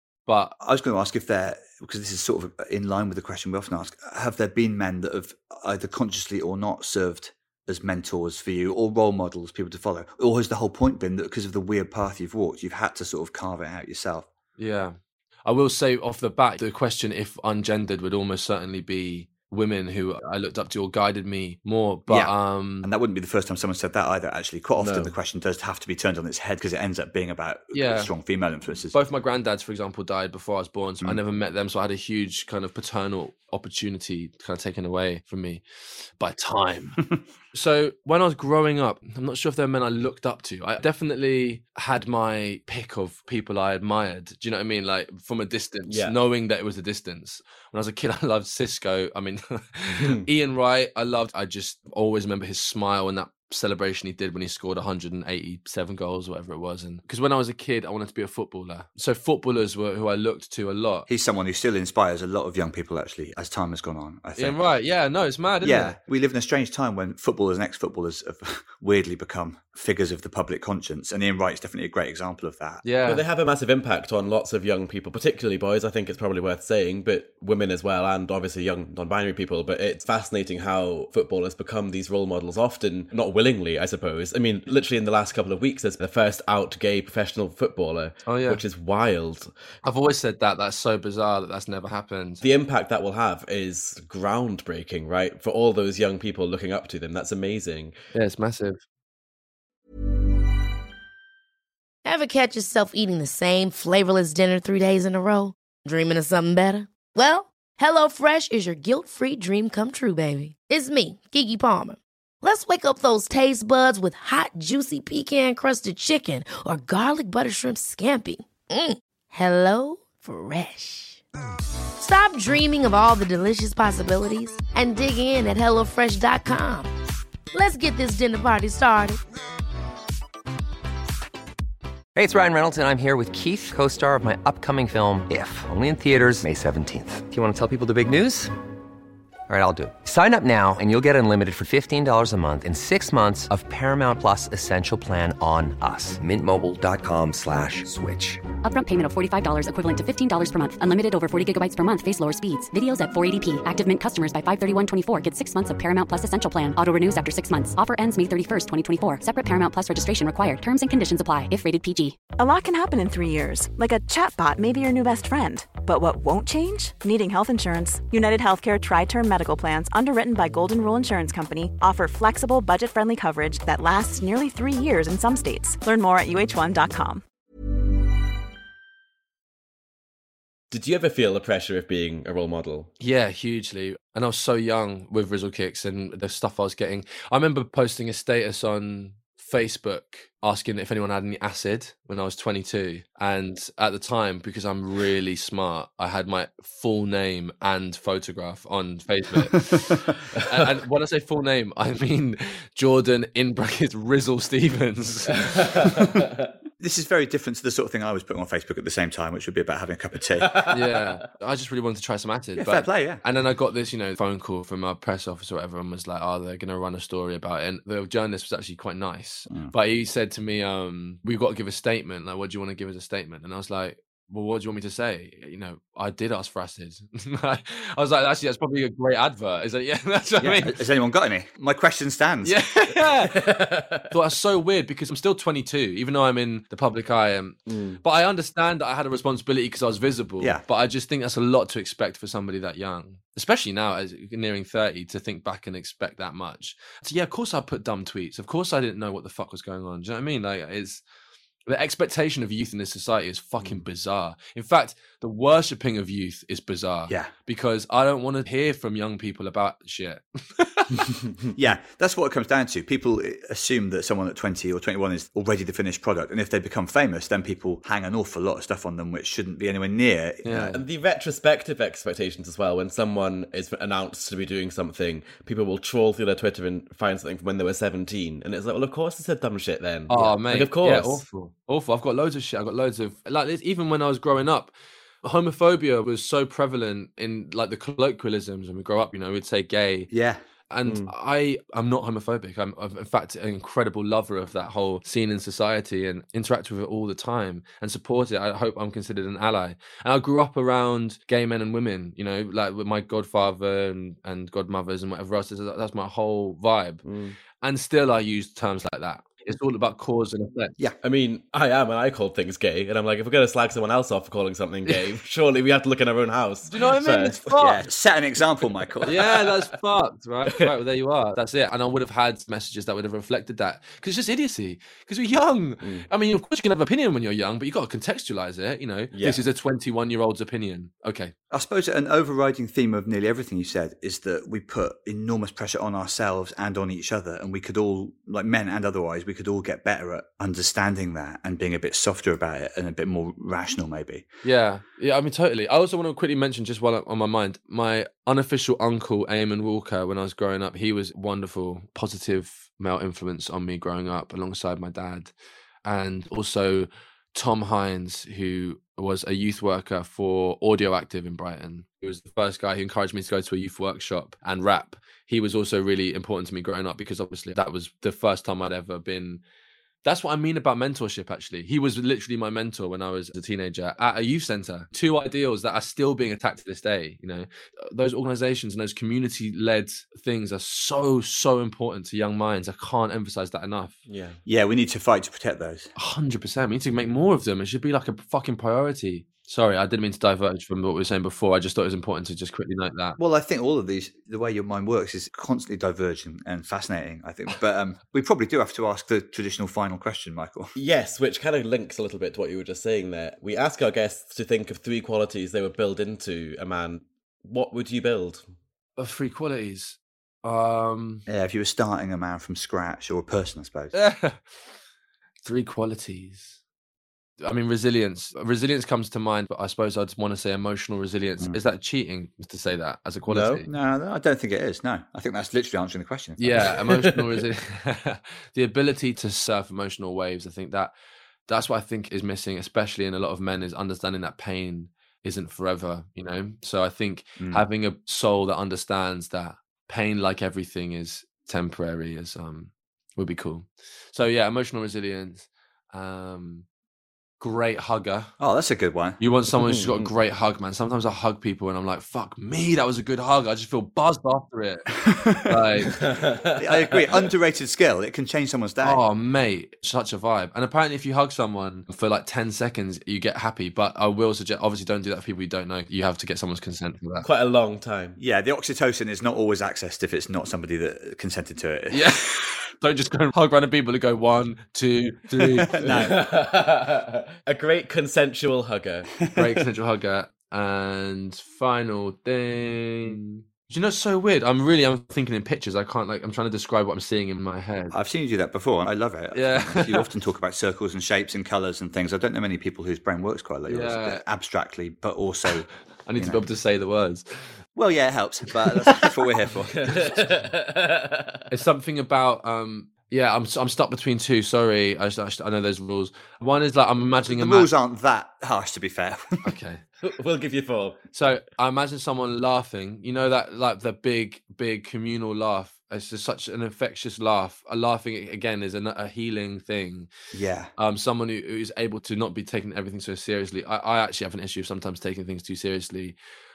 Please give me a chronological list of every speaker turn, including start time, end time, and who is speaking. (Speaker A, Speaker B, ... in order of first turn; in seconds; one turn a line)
Speaker A: 0.2-0.6
Speaker B: 0.6-14.3
Speaker A: 14.6-22.9
Speaker B: 22.1-28.9
Speaker C: 24.8-25.1
Speaker A: 27.7-28.1
Speaker A: 28.9-35.6
Speaker A: 36.2-37.0
Speaker A: 37.5-61.1
Speaker C: 45.9-46.1
Speaker C: 49.9-50.2
Speaker B: 61.1-64.6
Speaker A: 64.4-66.0
Speaker B: 65.6-72.8
Speaker A: 72.8-73.2
Speaker C: 73.1-89.5
Speaker A: 88.2-88.6
Speaker A: 89.8-92.4
Speaker C: 92.4-97.9
Speaker A: 98.1-98.8
Speaker D: 102.0-121.2
Speaker D: 122.0-126.9
Speaker D: 127.5-129.2
Speaker E: 132.1-138.5
Speaker E: 139.5-148.4
Speaker F: 148.6-162.2
Speaker G: 162.4-177.2
Speaker C: 180.7-182.9
Speaker A: 183.0-205.9
Speaker C: 205.4-206.5
Speaker B: 206.8-210.6
Speaker C: 210.4-210.8
Speaker A: 210.7-230.7
Speaker B: 212.6-213.2
Speaker B: 219.5-219.7
Speaker B: 230.4-232.6
Speaker A: 232.4-233.4
Speaker C: 233.3-234.0
Speaker A: 234.1-251.0
Speaker C: 237.7-238.0
Speaker A: 251.7-261.0
Speaker B: 261.5-270.7
Speaker A: 270.4-270.8
Speaker C: 270.7-281.2
Speaker A: 280.1-290.1
Speaker B: 290.1-290.4
Speaker A: 290.7-307.0
Speaker C: 290.9-291.1
Speaker C: 307.0-307.4
Speaker A: 307.6-310.8
Speaker C: 311.0-317.4
Speaker A: 316.7-317.8
Speaker B: 317.5-319.3
Speaker A: 319.1-331.3
Speaker C: 319.1-319.5
Speaker C: 325.8-326.1
Speaker C: 329.1-329.4
Speaker B: 331.5-344.2
Speaker A: 344.4-355.3
Speaker A: 355.8-369.4
Speaker A: 370.0-383.9
Speaker C: 384.1-384.4
Speaker B: 384.4-385.9
Speaker A: 385.9-393.2
Speaker B: 393.2-400.7
Speaker C: 400.8-408.4
Speaker A: 409.0-411.2
Speaker B: 411.3-413.9
Speaker A: 413.9-414.4
Speaker A: 415.4-416.6
Speaker A: 417.4-423.7
Speaker C: 423.3-423.6
Speaker B: 423.6-426.7
Speaker A: 426.4-430.9
Speaker A: 431.5-446.6
Speaker B: 437.4-437.6
Speaker A: 447.4-448.3
Speaker B: 448.4-449.2
Speaker A: 449.2-456.0
Speaker C: 449.6-450.1
Speaker B: 455.0-455.6
Speaker C: 455.9-457.1
Speaker B: 456.6-459.0
Speaker A: 458.8-467.2
Speaker C: 467.2-468.2
Speaker B: 468.2-472.1
Speaker A: 471.9-476.0
Speaker B: 475.6-476.2
Speaker C: 475.8-479.4
Speaker A: 479.3-487.9
Speaker B: 487.9-496.5
Speaker A: 489.3-490.1
Speaker A: 493.7-494.2
Speaker A: 496.1-497.2
Speaker B: 497.8-499.9
Speaker C: 499.8-501.4
Speaker A: 501.5-507.7
Speaker B: 507.3-509.5
Speaker A: 509.4-509.8
Speaker C: 510.0-511.0
Speaker A: 511.1-520.1
Speaker B: 520.3-520.7
Speaker A: 520.8-526.1